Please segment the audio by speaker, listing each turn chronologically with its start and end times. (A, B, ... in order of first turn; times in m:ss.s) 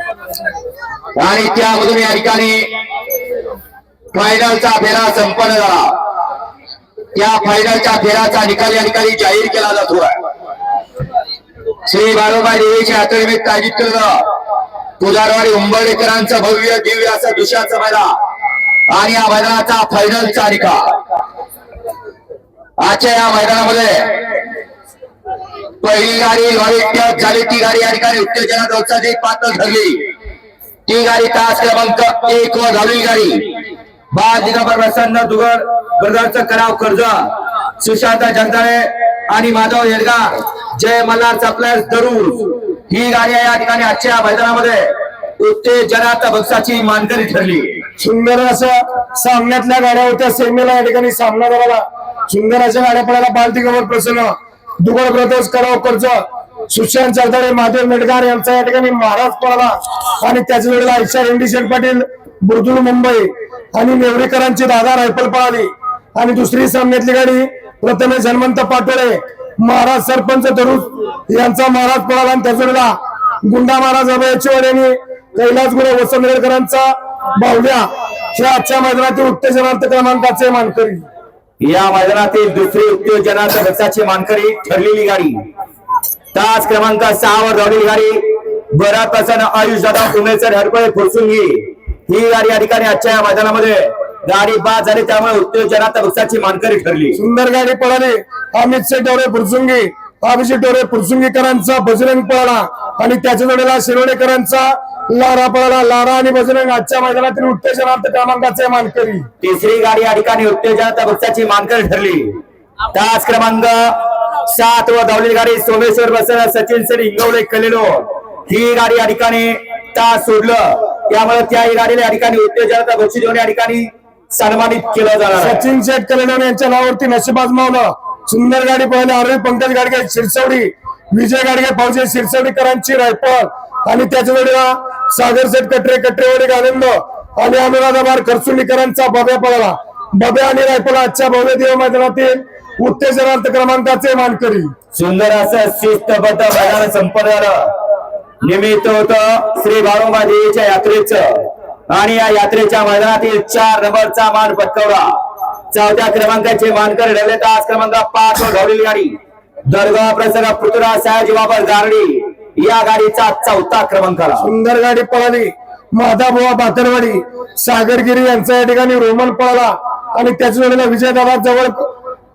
0:01.2-0:02.7 A
0:04.1-0:05.9 A
0:07.2-0:10.2 A
0:11.9-0:14.2 A
0:15.0-0:18.1 A
0:18.9-0:20.9 A
0:22.8-0:24.2 A
0:25.8-0:30.1 A
0:30.9-0:33.5 A
0:34.1-0:37.2 A
0:37.8-0:47.8 A
0:48.0-1:12.9 B
1:13.5-1:21.0 B
1:21.6-1:25.4 A
1:26.3-1:28.2 A
1:28.7-1:37.2 A
1:37.2-1:49.2 B
1:49.4-1:52.4 A
1:52.9-2:05.7 A
2:05.4-2:24.7 B
2:24.9-2:27.6 A
2:28.4-2:31.3 A
2:31.9-2:35.1 A
2:35.7-2:39.2 A
2:39.7-2:44.5 A
2:44.4-2:51.9 B